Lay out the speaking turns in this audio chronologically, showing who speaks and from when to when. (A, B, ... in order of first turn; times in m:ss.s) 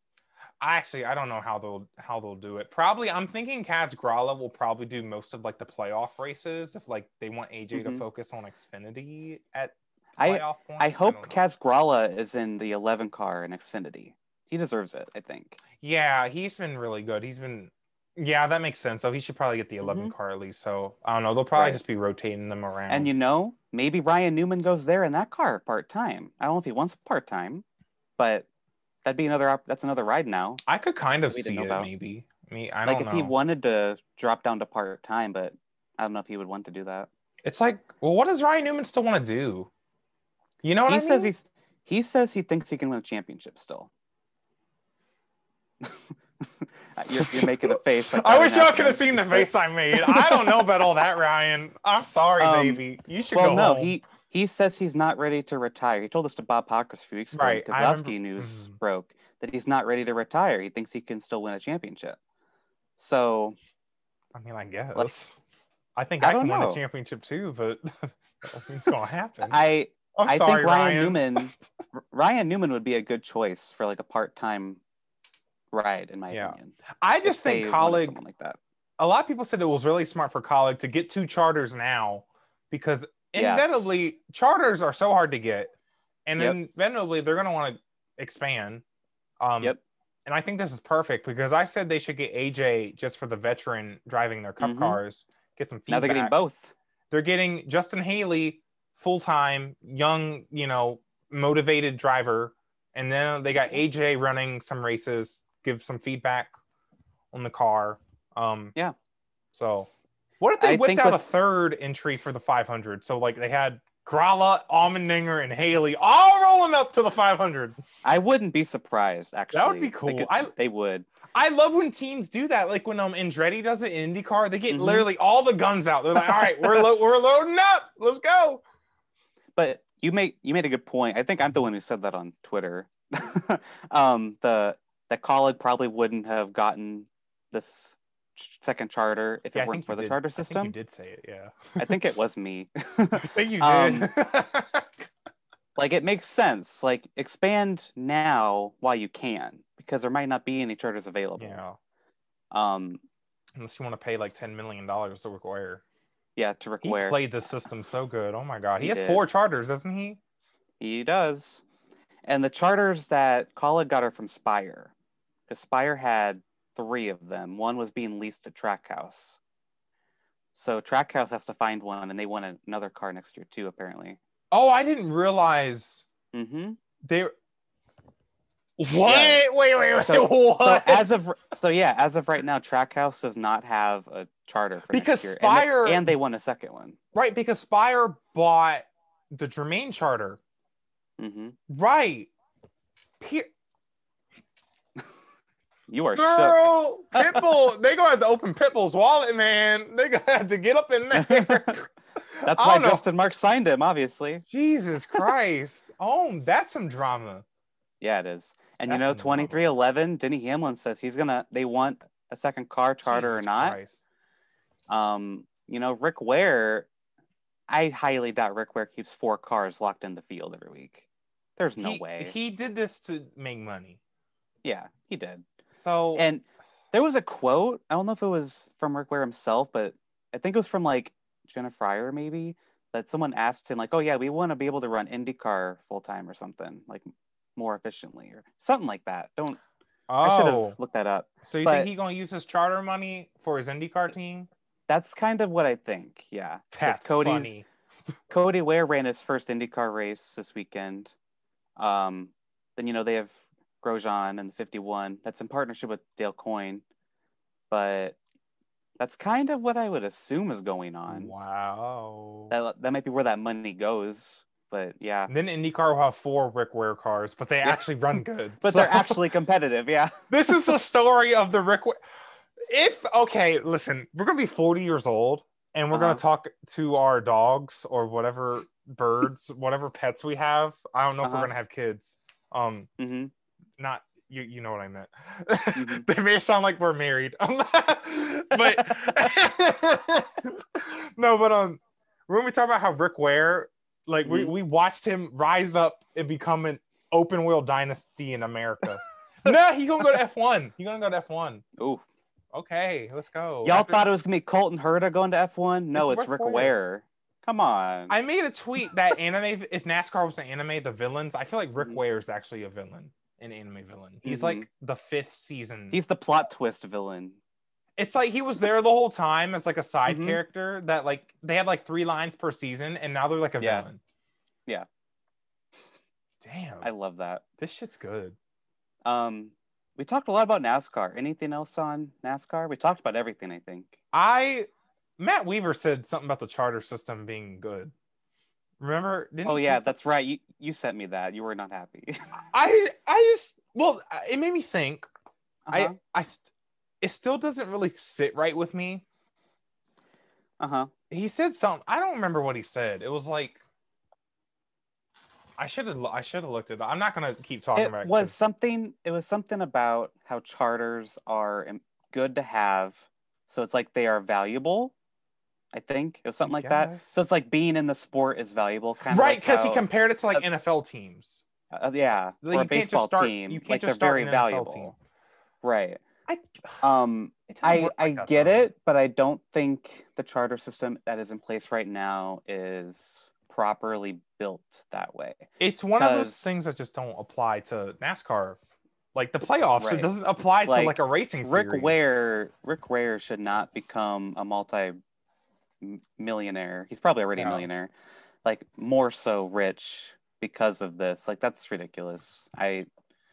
0:00.6-0:11.4 A
0:07.7-0:08.0 B
0:10.2-0:15.6 B
0:15.8-0:23.1 A
0:19.8-0:20.1 B
0:21.5-0:21.8 B
0:22.9-0:27.6 B
0:28.2-0:28.4 B
0:29.0-0:30.6 B
0:30.6-0:33.3 A
0:31.3-0:31.9 B
0:32.8-0:37.1 B
0:37.4-0:39.7 A
0:40.6-0:41.3 A
0:40.9-0:43.9 B
0:45.8-0:50.7 B
0:47.1-0:54.0 A
0:52.4-1:02.2 B
0:57.3-0:58.8 A
1:03.0-1:03.6 B
1:04.3-1:05.4 A
1:06.0-1:11.6 A
1:06.2-1:06.8 B
1:09.4-1:14.8 B
1:15.7-1:18.6 B
1:16.3-1:18.2 A
1:19.0-1:25.7 A
1:23.3-1:24.0 B
1:26.2-1:28.8 A
1:29.4-1:36.3 A
1:34.6-1:35.0 B
1:35.9-1:36.7 B
1:37.1-1:46.5 A
1:47.3-1:48.7 A
1:49.5-1:49.9 A
1:50.4-1:57.8 A
1:50.6-1:51.2 B
1:58.0-2:01.1 B
1:59.5-2:00.5 A
2:01.3-2:08.6 A
2:04.7-2:05.1 B
2:06.2-2:06.9 B
2:09.6-2:20.7 B
2:19.5-2:22.0 A
2:21.8-2:24.1 B
2:23.1-2:24.9 A
2:25.8-2:31.6 B
2:31.4-2:31.8 A
2:32.5-2:33.0 B
2:33.6-2:35.8 A
2:36.4-2:37.2 B
2:36.8-2:40.2 A
2:38.8-2:39.2 B
2:40.8-2:41.6 B
2:42.2-2:44.9 B
2:45.5-2:49.4 B
2:50.5-2:54.2 B
2:54.5-2:56.0 A
2:56.3-2:56.8 B
2:57.0-2:57.3 A
2:58.8-3:01.1 A
2:59.0-2:59.4 B
3:00.0-3:07.0 B
3:04.9-3:06.1 A
3:07.1-3:10.4 A
3:11.2-3:11.6 B
3:11.7-3:12.3 A
3:13.2-3:13.5 A
3:15.9-3:17.5 B
3:16.1-3:23.0 A
3:21.1-3:21.8 B
3:22.4-3:24.4 B
3:24.5-3:27.4 A
3:28.0-3:33.8 B
3:28.9-3:29.6 A
3:33.0-3:34.0 A
3:34.9-3:36.9 B
3:37.7-3:41.0 B
3:41.6-3:42.3 B
3:41.8-3:44.0 A
3:44.6-3:45.4 B
3:45.7-3:46.2 A
3:46.1-3:59.6 B
4:00.1-4:00.8 A
4:00.2-4:01.9 B
4:01.4-4:04.5 A
4:04.9-4:07.5 B
4:06.7-4:07.6 A
4:08.3-4:11.1 B
4:11.8-4:16.8 B
4:17.7-4:18.2 B
4:19.0-4:21.3 B
4:21.1-4:22.5 A
4:22.5-4:25.3 B
4:25.3-4:29.2 A
4:28.6-4:30.7 B
4:30.3-4:32.0 A
4:32.7-4:42.9 A
4:35.9-4:36.2 B
4:41.2-4:41.5 B
4:43.0-4:43.3 B
4:43.8-5:01.6 A
4:45.7-4:46.0 B
4:48.5-4:49.1 B
4:54.2-4:54.5 B
5:01.8-5:02.0 B
5:02.5-5:04.1 A
5:03.6-5:08.1 B
5:05.9-5:06.7 A
5:08.1-5:16.0 A
5:14.2-5:14.6 B
5:15.9-5:17.4 B
5:18.0-5:24.0 A
5:20.0-5:20.4 B
5:23.6-5:23.8 B
5:26.4-5:26.9 A
5:26.8-5:27.4 B
5:27.6-5:28.4 A
5:29.0-5:34.0 B
5:34.1-5:34.7 A
5:35.2-5:37.9 A
5:38.8-5:39.9 A
5:39.4-5:42.2 B
5:42.5-5:45.1 A
5:45.7-5:46.0 B
5:45.7-5:46.5 A
5:47.0-5:49.0 A
5:50.6-5:50.9 B
5:51.1-5:53.6 A
5:55.6-5:58.3 A
5:57.8-6:04.9 B
6:05.7-6:10.4 B
6:06.4-6:07.3 A
6:09.1-6:11.4 A
6:11.7-6:14.9 B
6:12.4-6:14.9 A
6:15.6-6:16.0 B
6:16.3-6:16.8 A
6:16.8-6:26.5 B
6:17.5-6:18.7 A
6:25.6-6:28.6 A
6:29.1-6:32.0 A
6:29.8-6:30.1 B
6:30.6-6:35.0 B
6:35.8-6:37.9 B
6:37.4-6:37.7 A
6:38.4-6:42.9 B